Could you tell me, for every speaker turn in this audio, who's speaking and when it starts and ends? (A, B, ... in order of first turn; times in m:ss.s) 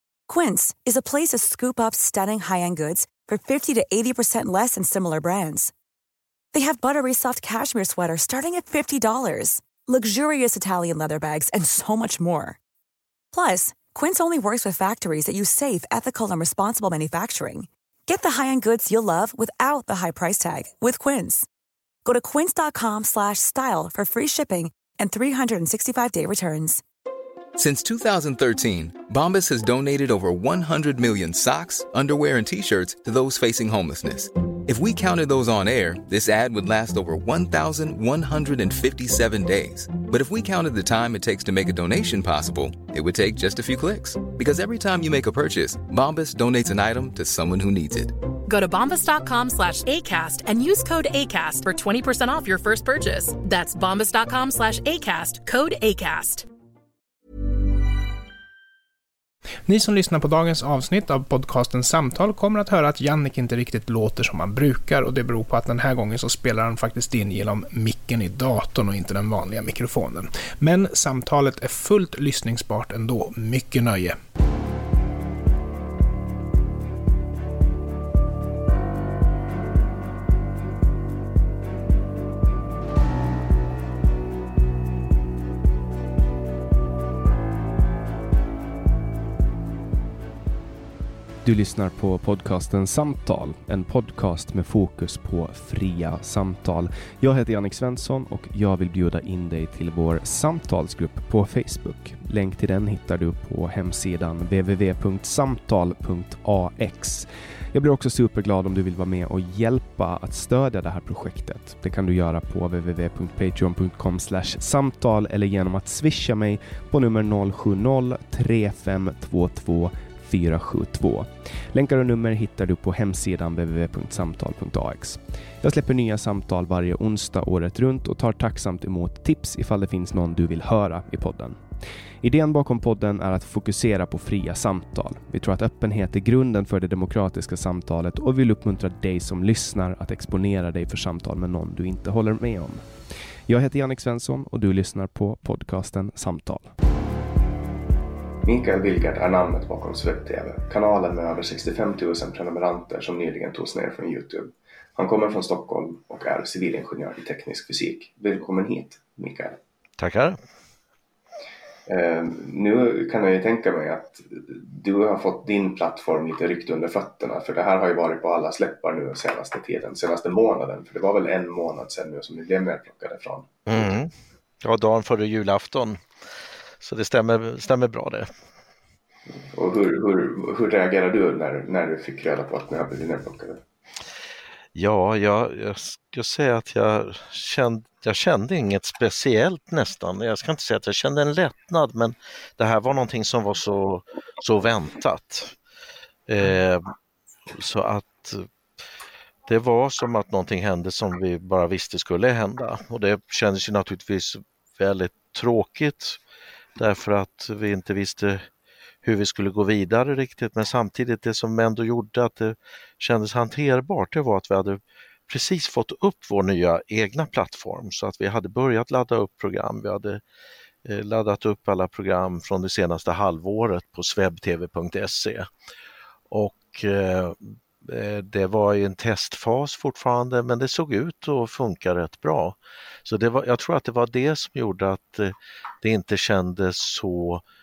0:00.3-0:05.7 A
0:06.5-0:12.6 A
0:13.3-0:21.5 A
0:22.0-0:26.8 A
0:27.6-0:48.2 B
0:48.4-0:56.5 C
0:59.7-1:14.2 D
1:31.4-2:11.6 E
2:12.2-2:22.9 E
2:23.5-2:26.7 E
2:28.4-2:39.6 F
2:40.0-2:40.4 G
2:41.9-2:53.9 F
2:53.7-2:56.0 G
2:56.8-2:58.3 G
2:59.5-3:03.6 F
3:04.7-3:15.6 G
3:16.3-3:16.9 G
3:17.5-3:18.5 G
3:19.5-3:26.2 G
3:26.8-3:28.5 G
3:29.0-3:40.2 G
3:40.8-3:45.5 G
3:46.3-3:57.4 G